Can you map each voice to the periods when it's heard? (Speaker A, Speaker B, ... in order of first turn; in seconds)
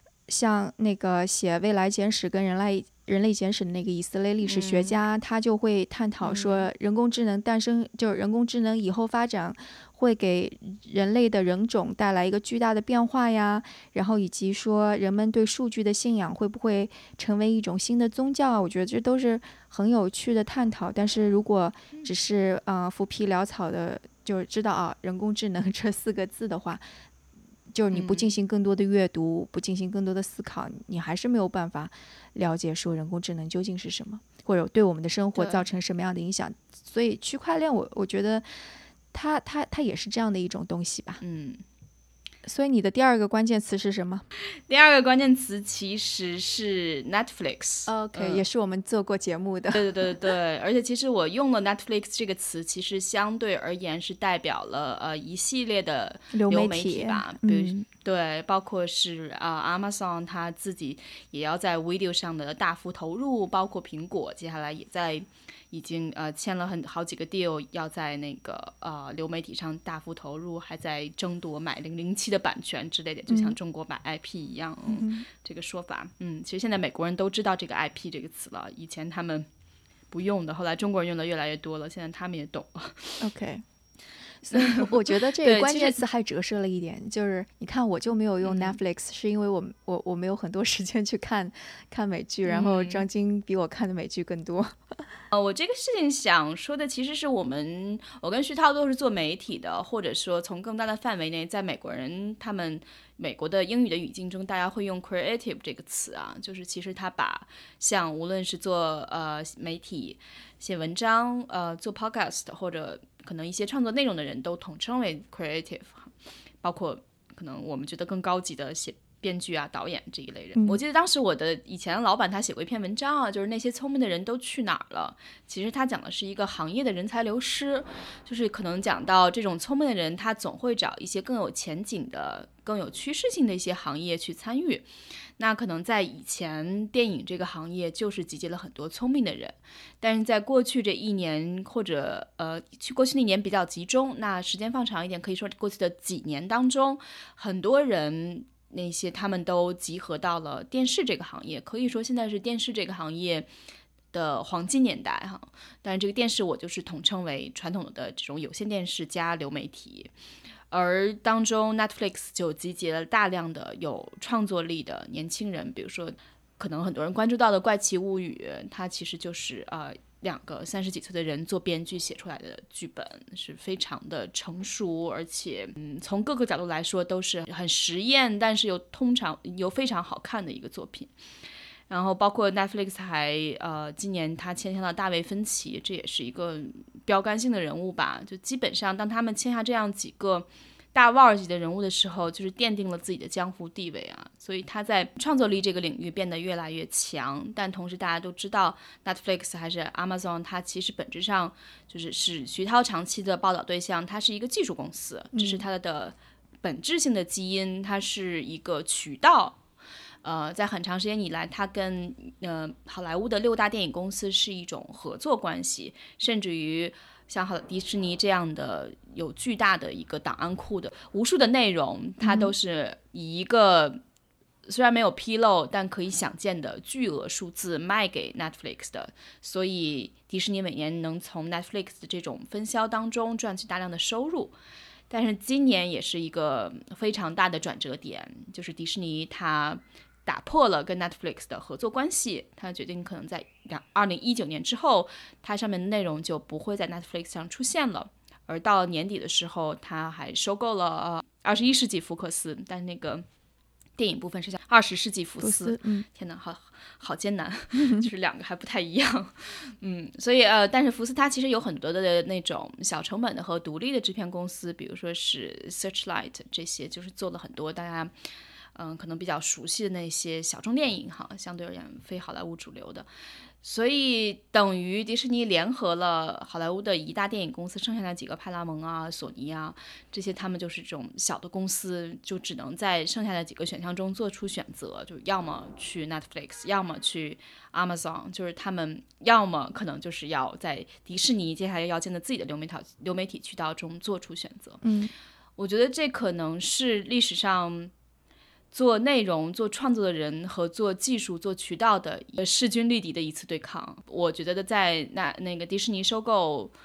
Speaker A: 0.3-26.9, 27.7-38.5, 39.1-41.2, 42.5-44.2, 47.9-50.2, 56.3-57.9, 73.3-73.6, 74.9-75.3, 83.2-83.6, 84.4-94.8, 120.5-120.8, 205.3-205.6, 222.2-222.6, 255.4-256.1, 257.8-258.1, 294.8-295.1
Speaker B: 4.4-5.0, 6.2-6.7, 27.9-28.3, 35.4-35.6, 41.2-41.6, 44.7-48.4, 49.7-79.5, 80.1-83.2, 84.5-86.0, 88.4-88.8, 92.5-93.0, 95.3-116.1, 116.6-134.9, 135.4-153.5, 154.1-160.1, 160.7-181.1, 181.9-209.6, 210.2-224.0, 224.7-234.5, 235.1-253.2, 254.0-268.1, 268.8-273.1, 273.6-294.8, 295.6-297.9, 298.7-306.7